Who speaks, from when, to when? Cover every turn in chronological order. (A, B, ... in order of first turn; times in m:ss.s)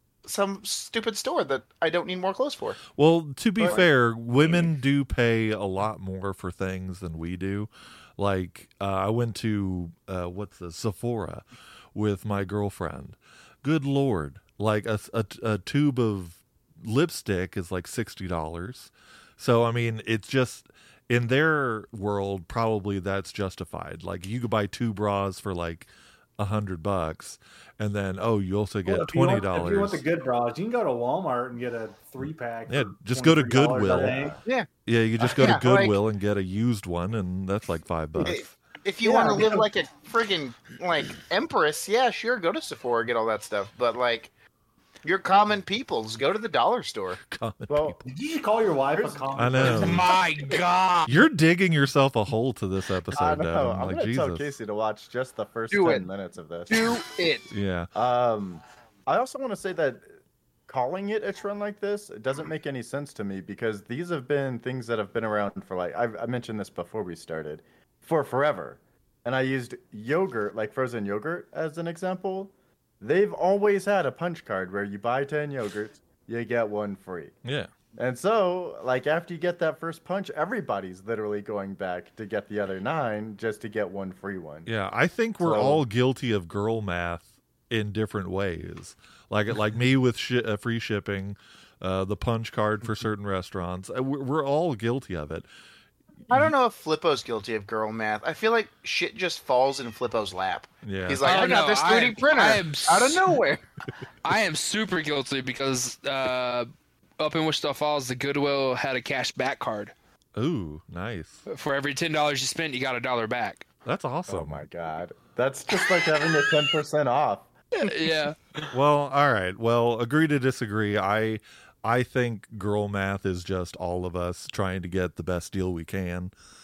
0:00.2-0:02.8 A
0:02.9-0:30.0 B
0:28.8-0:34.4 C
0:32.7-0:34.2 B
0:33.8-0:34.4 D
0:34.8-0:38.5 B
0:35.2-0:36.0 A
0:38.2-0:44.3 A
0:39.0-0:39.6 D
0:45.0-0:47.2 A
0:47.3-0:48.0 B
0:47.7-0:48.0 D
0:48.0-0:50.1 C
0:48.9-0:50.0 D
0:49.3-0:50.1 B
0:49.6-0:51.2 E
0:50.1-0:50.7 A
0:51.1-0:54.5 B
0:53.1-0:57.0 D
0:55.7-0:56.0 A
0:56.7-0:57.5 A
0:57.5-0:57.9 B
0:57.9-1:00.1 D
1:00.7-1:17.3 D
1:17.4-1:17.7 B
1:18.0-1:24.7 D
1:24.6-1:35.5 B
1:25.4-1:25.8 D
1:36.3-1:43.6 A
1:40.8-1:41.2 B
1:41.2-1:43.4 E
1:44.2-1:49.9 E
1:50.4-1:51.4 B
1:51.5-1:53.7 E
1:53.8-1:54.6 B
1:54.3-1:57.5 D
1:57.7-1:58.7 E
1:58.7-2:06.3 B